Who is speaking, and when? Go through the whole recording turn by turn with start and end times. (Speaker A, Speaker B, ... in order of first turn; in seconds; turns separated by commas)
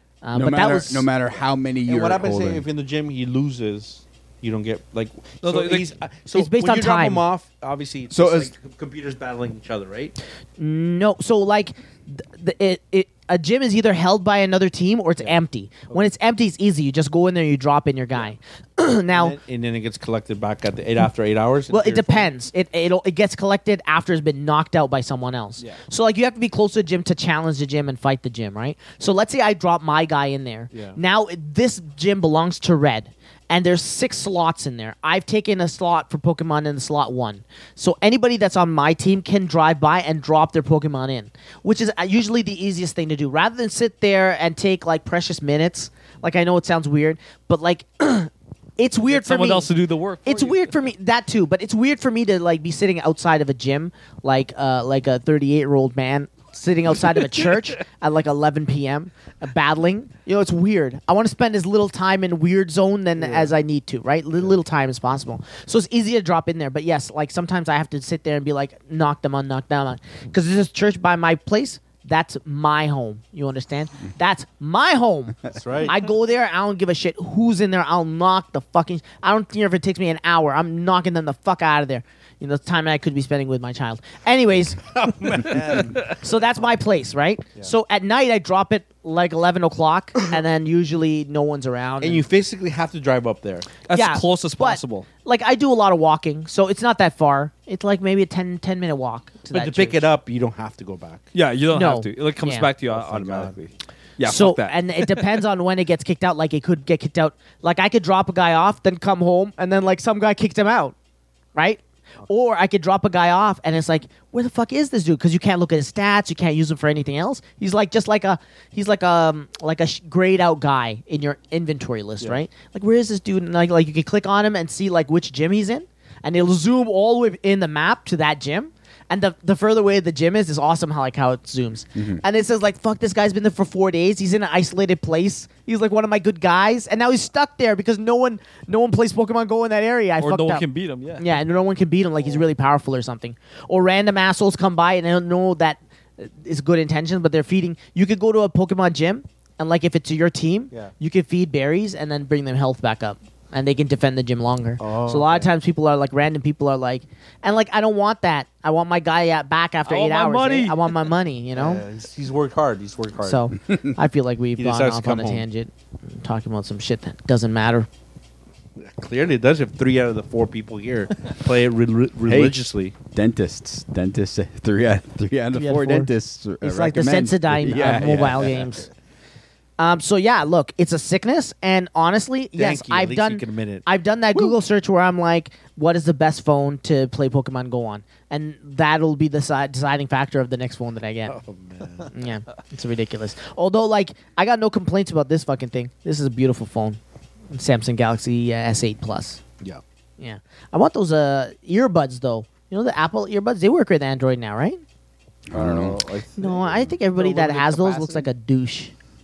Speaker A: 0.2-1.1, Speaker B: 0.3-2.6, Speaker C: 1.9-10.2, Speaker D: 5.4-5.9, Speaker A: 6.3-7.2, Speaker B: 8.1-8.5, Speaker A: 10.6-19.4, Speaker C: 19.1-22.3, Speaker A: 21.7-49.7, Speaker C: 30.7-31.0, Speaker D: 49.1-50.7, Speaker A: 50.2-92.3, Speaker C: 63.2-63.5, Speaker C: 75.5-76.0, Speaker C: 85.0-86.3, Speaker C: 92.0-93.8, Speaker D: 93.8-95.1, Speaker A: 93.9-100.1, Speaker C: 99.5-101.3, Speaker D: 101.3-105.4, Speaker A: 101.7-102.7, Speaker C: 102.9-103.6, Speaker A: 104.2-111.0, Speaker A: 111.5-140.7, Speaker D: 140.2-141.4, Speaker A: 141.2-161.8, Speaker C: 154.8-155.5, Speaker D: 159.8-161.1, Speaker C: 161.5-163.4, Speaker A: 163.2-167.9, Speaker C: 164.6-165.4, Speaker C: 168.8-172.9, Speaker B: 172.3-178.8, Speaker A: 175.5-176.1, Speaker A: 176.6-178.9, Speaker A: 179.8-191.4, Speaker C: 182.6-183.8, Speaker C: 191.3-192.1, Speaker A: 192.1-197.0, Speaker A: 197.5-199.4, Speaker A: 200.2-204.8, Speaker B: 205.5-206.0, Speaker D: 205.6-206.4, Speaker C: 206.3-208.2, Speaker A: 206.4-208.9